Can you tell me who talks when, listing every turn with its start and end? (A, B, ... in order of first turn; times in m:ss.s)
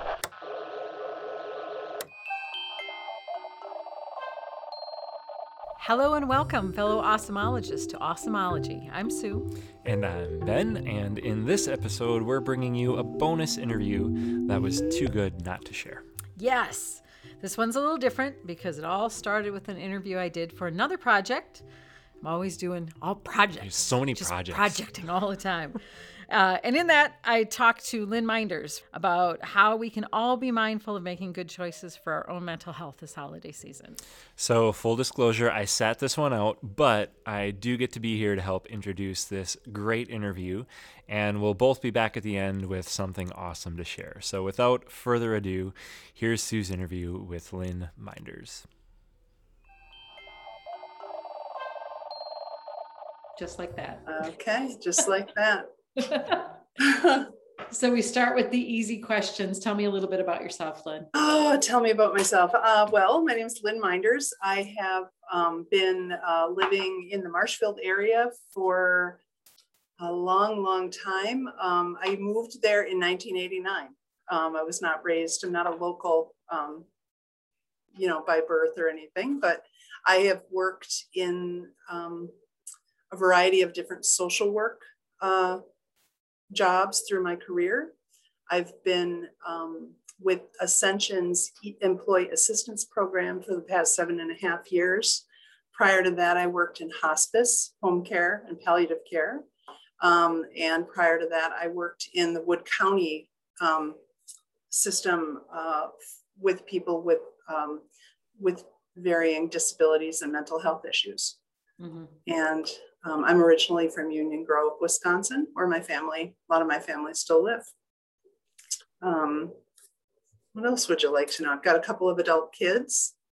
0:05.8-0:09.5 A
0:09.8-0:16.0 B
0:16.4-0:21.6 A
0:22.2-0:34.0 A
0:23.6-0:24.8 B
0:34.4-0:48.7 B
0:53.4-0:54.1 A
0:54.1-0:55.7 C
0:56.0-0:56.4 A
0:56.8-0:57.3 C
0:57.7-1:01.1 A
1:01.1-1:09.2 C
1:10.0-1:16.9 C
1:18.0-1:22.3 C
1:23.1-1:25.6 C
1:26.5-1:27.9 C
1:28.5-1:39.4 C
1:40.0-1:44.0 C
1:44.7-1:47.8 C
1:48.4-1:51.4 C
1:51.8-1:52.2 A
1:52.2-1:57.7 C
1:59.0-1:59.6 C
2:00.5-2:03.1 C